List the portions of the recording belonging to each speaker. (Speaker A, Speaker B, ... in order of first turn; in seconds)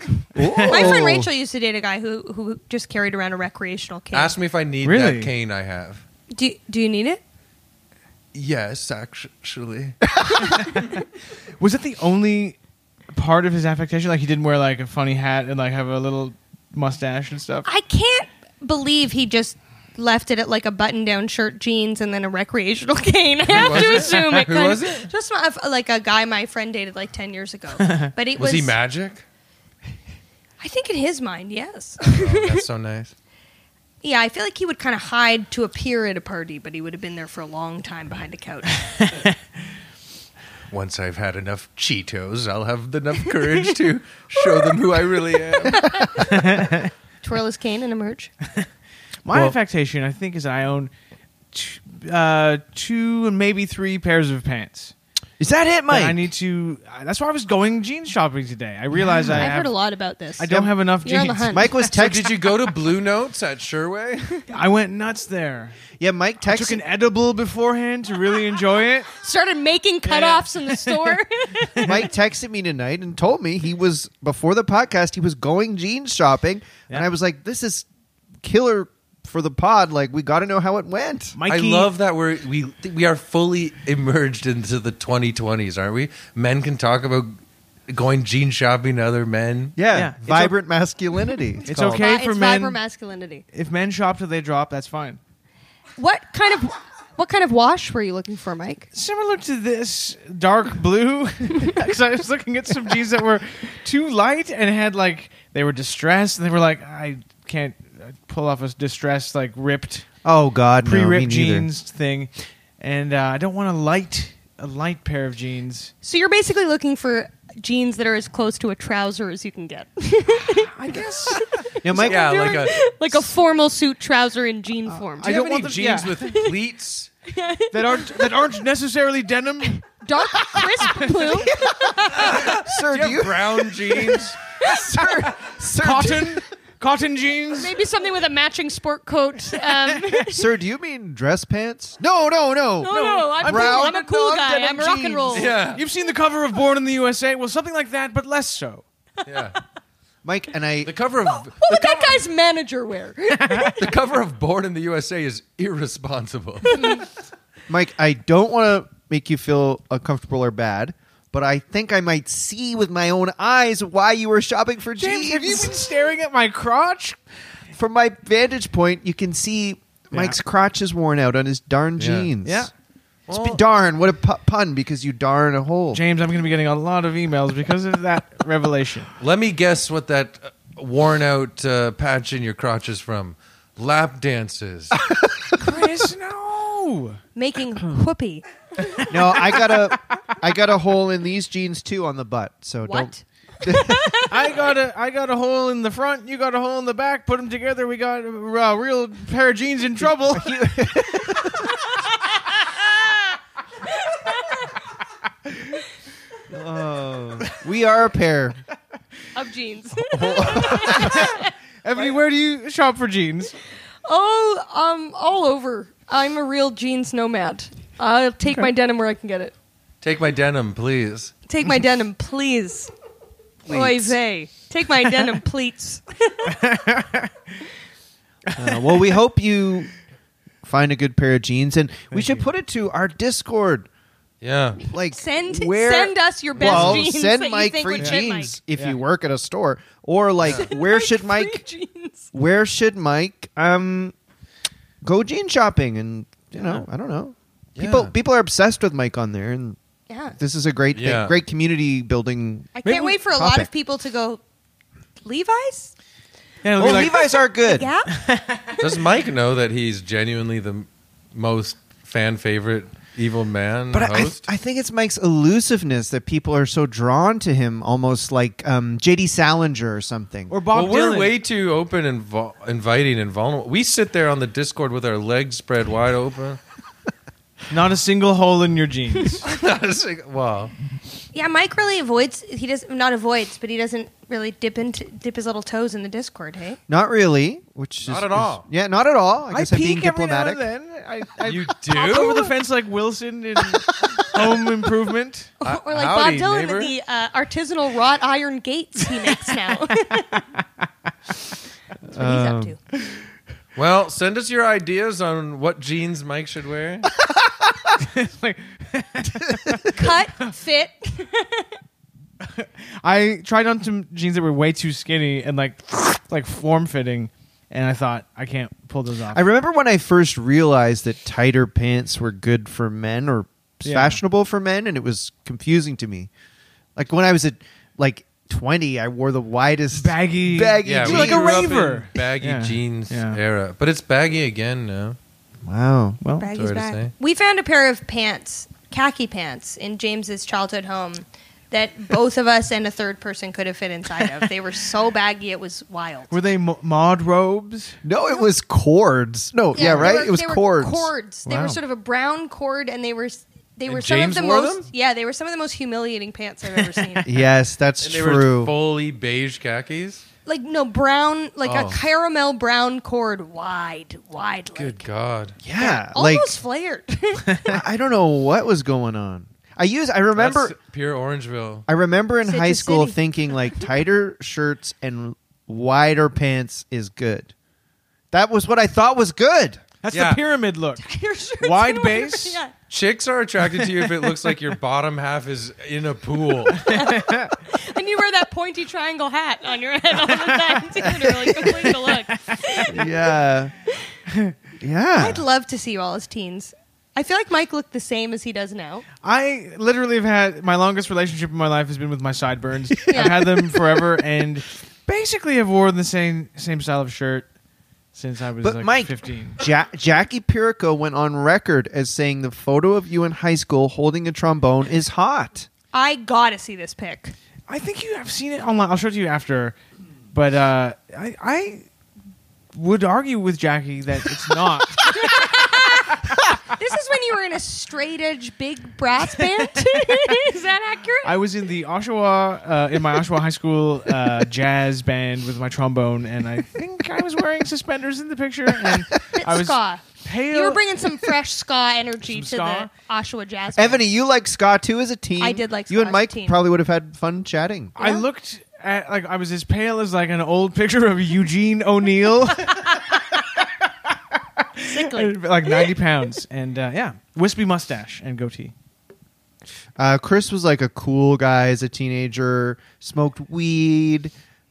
Speaker A: 0.3-1.3, 55.4-56.2, 61.5-62.5, 66.0-66.8, 71.8-77.8, 78.4-81.4, 89.8-92.0, 110.2-111.7, 121.8-122.5, 132.1-136.4, 140.3-145.5, 150.2-150.9, 157.7-165.8, 167.8-172.7, 173.3-176.0, 189.0-194.3, 200.3-201.7, 206.5-208.6, 209.9-211.3, 228.6-229.9, 230.6-233.9, 234.9-241.6, 242.3-244.1, 245.0-249.8, 250.3-253.7, 256.8-257.9, 263.9-270.5, 286.9-290.6, 302.1-302.8, 319.3-326.3, 326.9-331.7, 335.6-336.2, 348.0-351.8, 357.2-358.7, 365.6-366.6, 367.7-370.7, 371.9-377.5, 378.3-379.8, 392.9-393.7, 394.8-395.4, 408.6-415.7, 443.7-447.9, 459.9-464.3
Speaker B: 0.4-0.9, 4.8-5.3, 11.6-12.6, 13.1-17.7, 46.3-46.9, 49.2-50.9, 51.5-54.9, 55.9-59.7, 60.4-61.6, 64.5-65.8, 66.5-69.1, 70.0-71.2, 81.3-81.9, 89.9-90.5, 91.7-92.8, 93.5-95.2, 98.9-110.0, 110.8-115.9, 120.5-121.4, 124.9-126.1, 127.7-129.8, 130.8-131.3, 135.8-137.7, 139.8-140.1, 142.9-144.0, 145.7-148.8, 153.4-153.7, 165.0-167.2, 170.1-170.4, 172.4-172.7, 175.9-179.1, 185.6-187.2, 194.3-200.5, 210.8-211.3, 211.8-213.5, 226.5-227.3, 228.5-229.0, 232.1-232.5, 238.7-239.0, 256.6-257.2, 258.1-258.8, 270.5-271.4, 277.7-279.4, 289.5-295.5, 308.0-309.9, 312.4-319.4, 323.8-324.2, 329.9-333.4, 336.2-336.5, 346.3-348.0, 380.0-381.0, 381.6-382.6, 386.9-387.4, 390.9-392.5, 394.3-394.5, 399.2-407.5, 408.1-409.6, 417.7-419.8, 420.3-421.9, 422.7-425.3, 431.2-440.8, 442.2-442.9, 447.9-452.9, 454.6-458.7
Speaker C: 0.6-4.3, 6.3-7.2, 17.6-28.7, 30.6-32.6, 34.0-39.1, 45.6-46.6, 47.2-48.3, 59.3-61.7, 69.1-72.0, 91.9-93.4, 96.0-98.9, 116.0-120.7, 121.3-125.4, 126.2-126.5, 127.3-128.3, 129.9-132.4, 137.6-140.5, 142.8-145.5, 151.4-153.8, 156.7-157.1, 187.3-188.4, 192.8-194.3, 201.8-203.3, 203.9-204.7, 209.3-211.5, 214.1-219.5, 221.4-222.9, 223.7-226.7, 235.1-238.5, 240.5-242.3, 250.1-250.3, 252.8-254.4, 255.2-255.9, 256.9-258.2, 281.3-286.8, 295.6-300.4, 302.1-302.8, 309.9-311.7, 336.4-346.3, 349.7-357.3, 360.4-365.0, 365.7-367.8, 372.4-373.1, 381.0-382.7, 386.9-393.1, 395.2-399.1, 403.1-403.8, 415.9-417.3, 425.1-431.3, 439.3-444.1, 445.4-446.6, 448.0-448.2, 454.9-455.9
Speaker D: 4.1-6.0, 8.3-10.0, 23.4-25.1, 28.4-29.2, 32.0-33.1, 40.7-46.2, 61.9-64.4, 81.5-87.4, 87.9-89.8, 122.0-122.8, 125.2-127.1, 132.2-134.3, 145.3-145.8, 149.2-149.6, 150.8-152.2, 153.8-157.0, 172.0-172.3, 173.3-173.6, 179.2-185.0, 220.0-221.3, 223.7-224.2, 234.4-234.8, 236.6-237.0, 247.8-248.1, 250.9-251.4, 258.8-264.5, 270.7-276.6, 279.4-280.7, 288.0-288.6, 291.4-292.5, 295.6-296.9, 303.7-307.1, 330.8-335.2, 336.5-337.1, 353.9-354.9, 358.0-360.2, 361.6-362.0, 364.7-365.6, 370.4-371.9, 380.1-380.4, 382.9-386.9